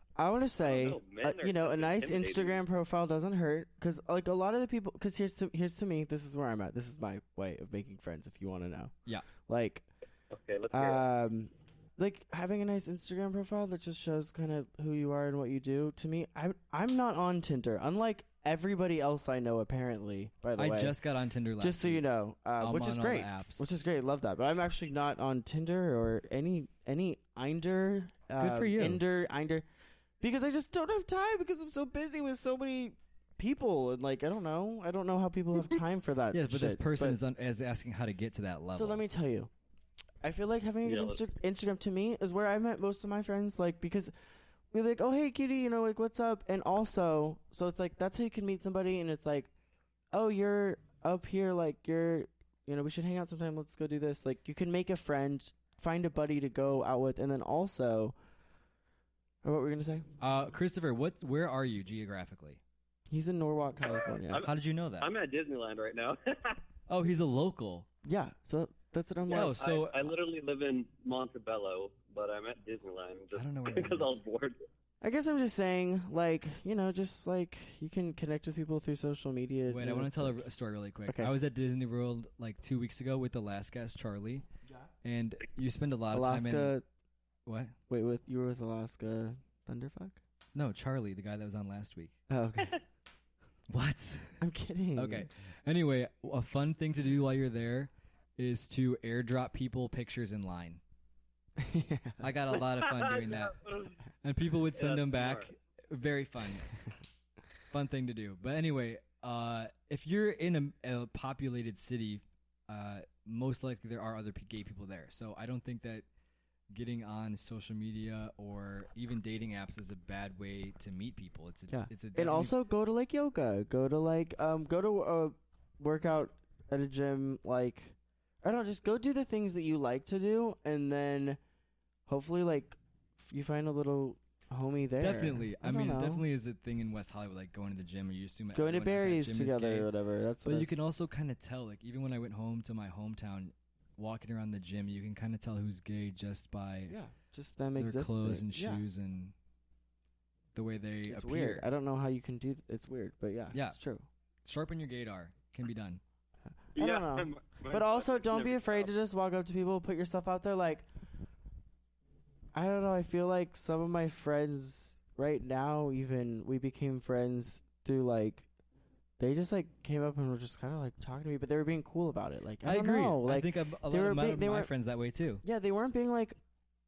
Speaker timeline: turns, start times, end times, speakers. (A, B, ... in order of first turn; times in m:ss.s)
0:00.2-0:08.9 A
0:00.6-0:02.6 B
0:09.4-0:09.9 A
0:10.3-0:11.1 B
0:10.7-0:21.0 A
0:20.6-0:22.0 C
0:21.6-0:29.6 A
0:22.6-0:23.7 C
0:28.4-0:29.0 C
0:30.2-0:37.2 A
0:36.3-0:39.0 C
0:38.7-0:39.5 A
0:40.2-0:44.1 A
0:40.8-0:41.2 B
0:44.7-0:49.5 A
0:50.1-0:58.2 A
0:59.4-1:00.1 A
1:00.2-1:02.6 C
1:03.1-1:04.4 A
1:04.1-1:06.6 B
1:04.4-1:05.1 C
1:06.9-1:07.9 C
1:08.0-1:09.6 A
1:09.3-1:14.6 B
1:09.3-1:10.1 C
1:13.3-1:14.2 C
1:15.0-1:20.4 A
1:19.7-1:24.4 C
1:21.1-1:21.3 A
1:25.0-1:26.8 C
1:26.1-1:26.8 A
1:27.4-1:27.8 C
1:27.9-1:30.2 A
1:30.5-1:32.1 C
1:32.3-1:32.8 A
1:33.7-1:34.4 C
1:34.4-1:35.3 A
1:35.0-1:40.8 C
1:41.6-1:42.2 A
1:42.2-1:43.6 C
1:42.5-1:44.0 B
1:44.2-1:46.7 C
1:44.7-1:45.5 B
1:47.7-1:56.0 C
1:56.7-2:02.5 C
2:01.7-2:11.4 A
2:12.1-2:16.2 A
2:15.0-2:19.9 C
2:18.5-2:20.7 A
2:20.4-2:27.0 C
2:26.9-2:28.8 A
2:27.8-2:29.3 C
2:30.5-2:31.6 C
2:31.1-2:34.1 A
2:33.5-2:33.8 C
2:34.4-2:36.0 C
2:36.7-2:40.9 A
2:36.8-2:38.9 B
2:42.5-2:48.5 A
2:49.2-2:54.7 A
2:52.6-2:55.4 C
2:55.4-2:56.4 A